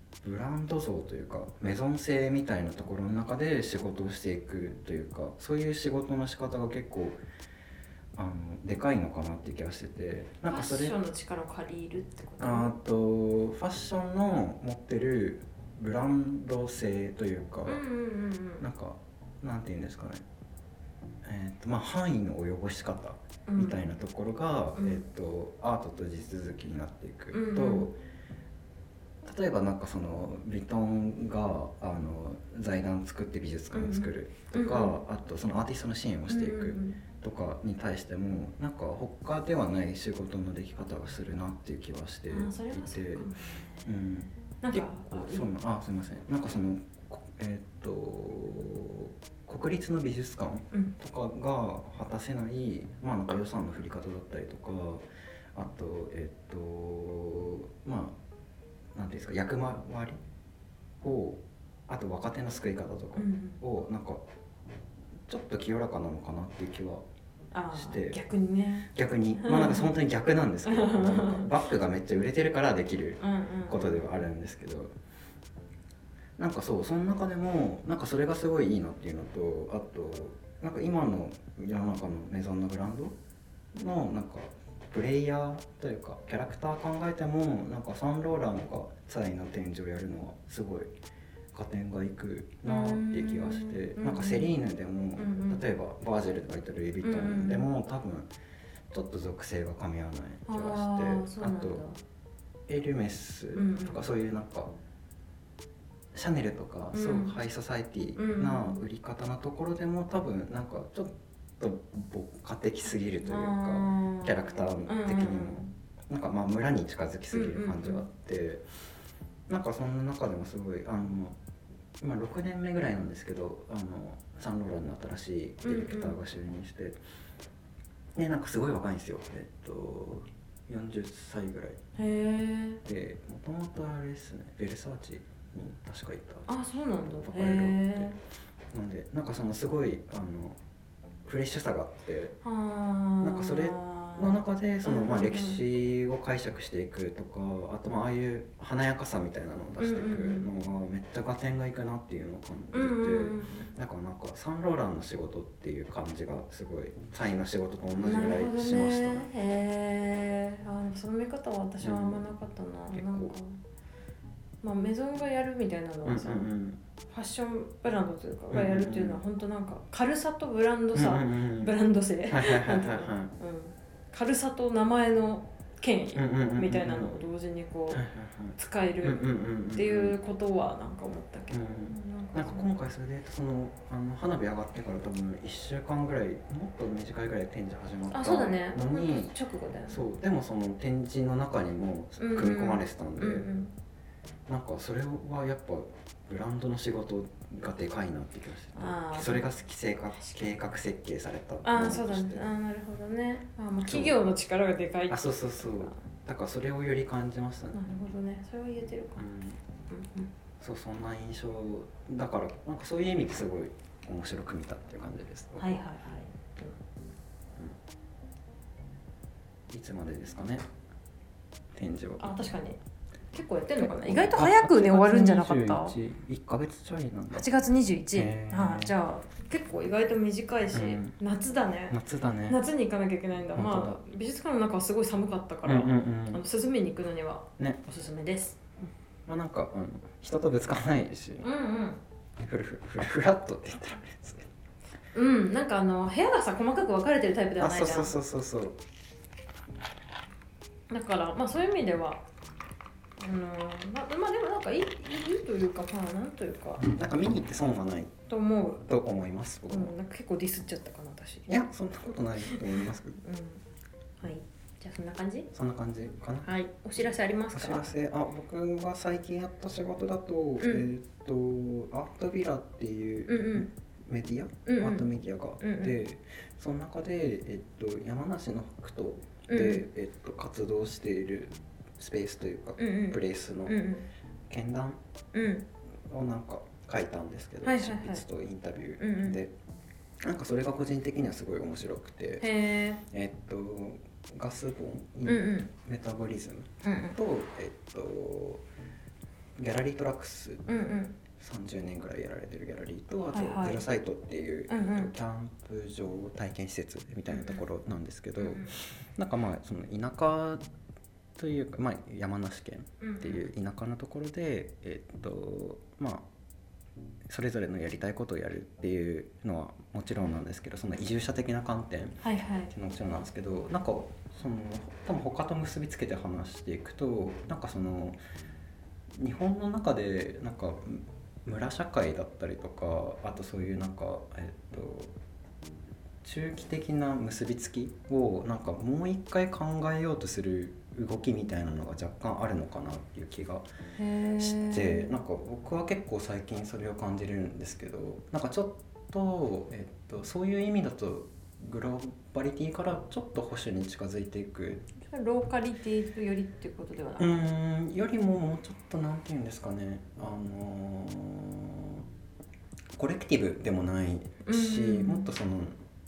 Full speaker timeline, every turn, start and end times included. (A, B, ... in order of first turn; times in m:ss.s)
0:00.2-0:07.2 A
0:08.1-0:10.9 A
0:10.5-0:12.7 B
0:12.4-0:17.8 A
0:17.6-0:18.7 B
0:18.6-0:20.2 A
0:21.2-0:27.9 A
0:23.5-0:23.8 B
0:24.8-0:25.0 B
0:27.3-0:27.9 B
0:29.2-0:43.3 A
0:33.7-0:35.0 B
0:36.3-0:37.0 B
0:42.3-0:43.9 B
0:43.8-0:58.2 A
0:44.6-0:45.5 B
0:58.9-1:00.2 A
1:01.0-1:04.2 A
1:03.2-1:03.6 B
1:05.3-1:07.0 A
1:07.5-1:09.9 B
1:07.7-1:08.2 A
1:08.9-1:14.9 A
1:10.6-1:11.5 B
1:13.2-1:14.0 B
1:16.4-1:23.1 A
1:23.7-1:30.9 A
1:31.5-1:38.3 A
1:32.6-1:34.5 B
1:35.2-1:35.6 B
1:37.0-1:37.6 B
1:38.9-1:41.8 A
1:40.5-1:42.0 B
1:42.7-1:44.7 A
1:43.5-1:44.0 B
1:46.1-1:58.6 A
1:46.9-1:47.4 B
1:48.2-1:48.8 B
1:53.2-1:55.7 B
1:57.3-1:58.0 B
1:59.5-2:01.4 A
2:02.0-2:07.0 A
2:05.6-2:06.2 B
2:08.1-2:11.8 A
2:12.0-2:12.8 B
2:12.8-2:16.4 A
2:16.5-2:18.2 B
2:17.1-2:18.1 A
2:18.7-2:20.6 A
2:21.2-2:22.3 A
2:22.4-2:25.6 B
2:23.2-2:39.3 A
2:29.8-2:30.5 B
2:32.7-2:33.7 B
2:38.0-2:43.6 B
2:41.8-2:42.2 A
2:42.9-2:43.3 A
2:44.6-2:46.4 B
2:46.0-2:46.8 A
2:47.1-2:58.0 B
2:48.5-2:49.2 A
2:50.9-2:51.7 A
2:52.3-2:53.3 A
2:56.1-2:57.1 A
2:57.9-3:00.2 A
2:58.6-3:02.7 B
3:01.5-3:09.3 A
3:08.1-3:10.0 B
3:09.9-3:13.5 A
3:12.2-3:13.7 B
3:14.5-3:22.4 A
3:18.7-3:19.4 B
3:20.1-3:20.5 B
3:21.6-3:26.0 B
3:23.8-3:24.2 A
3:25.1-3:27.8 A
3:27.7-3:29.2 B
3:29.2-3:29.6 A
3:29.9-3:30.3 B
3:30.6-3:35.8 A
3:35.6-3:36.7 B
3:39.7-3:40.7 A
3:41.7-3:42.3 A
3:42.2-3:42.8 B
3:43.3-3:46.0 B
3:43.8-3:47.4 A
3:47.3-3:52.0 B
3:48.1-3:48.9 A
3:50.7-3:51.1 A
3:51.9-3:52.6 A
3:52.5-3:58.6 B
3:53.5-3:54.0 A
3:55.6-3:56.4 A
3:59.2-4:01.5 A
4:01.4-4:02.0 B
4:02.4-4:04.5 A
4:05.1-4:08.2 B
4:07.6-4:08.8 A
4:10.9-4:12.2 B
4:13.2-4:16.9 B
4:16.8-4:18.1 A
4:18.3-4:18.8 B
4:18.9-4:19.9 A
4:19.7-4:21.5 B
4:21.5-4:23.2 A
4:22.4-4:23.6 B
4:24.2-4:25.5 B
4:25.5-4:26.5 A
4:26.4-4:27.9 B
4:27.5-4:43.8 A
4:30.6-4:30.8 B
4:33.3-4:33.7 B
4:34.6-4:35.1 B
4:35.6-4:36.0 B
4:39.5-4:39.8 B
4:42.8-4:44.1 B
4:44.5-4:45.0 A
4:45.3-4:45.6 B
4:46.1-4:49.5 A
4:47.6-4:48.2 B
4:49.0-4:49.4 B
4:50.2-4:52.5 A
4:52.4-4:53.0 B
4:53.1-4:58.6 A
4:55.2-4:55.7 B
4:56.8-4:57.2 B
4:59.6-5:00.7 A
5:00.7-5:01.2 B
5:01.4-5:10.6 A
5:03.3-5:03.8 B
5:04.7-5:05.1 B
5:07.3-5:07.6 B
5:08.4-5:08.8 B
5:11.4-5:16.2 A
5:13.0-5:13.5 B
5:17.3-5:22.2 A
5:22.2-5:22.7 B
5:22.7-5:28.2 A
5:29.1-5:35.1 A
5:36.2-5:43.7 A
5:44.0-5:45.1 B
5:44.4-5:54.9 A
5:55.0-5:57.5 B
5:57.2-6:02.0 A
6:03.0-6:05.7 A
6:04.4-6:05.3 B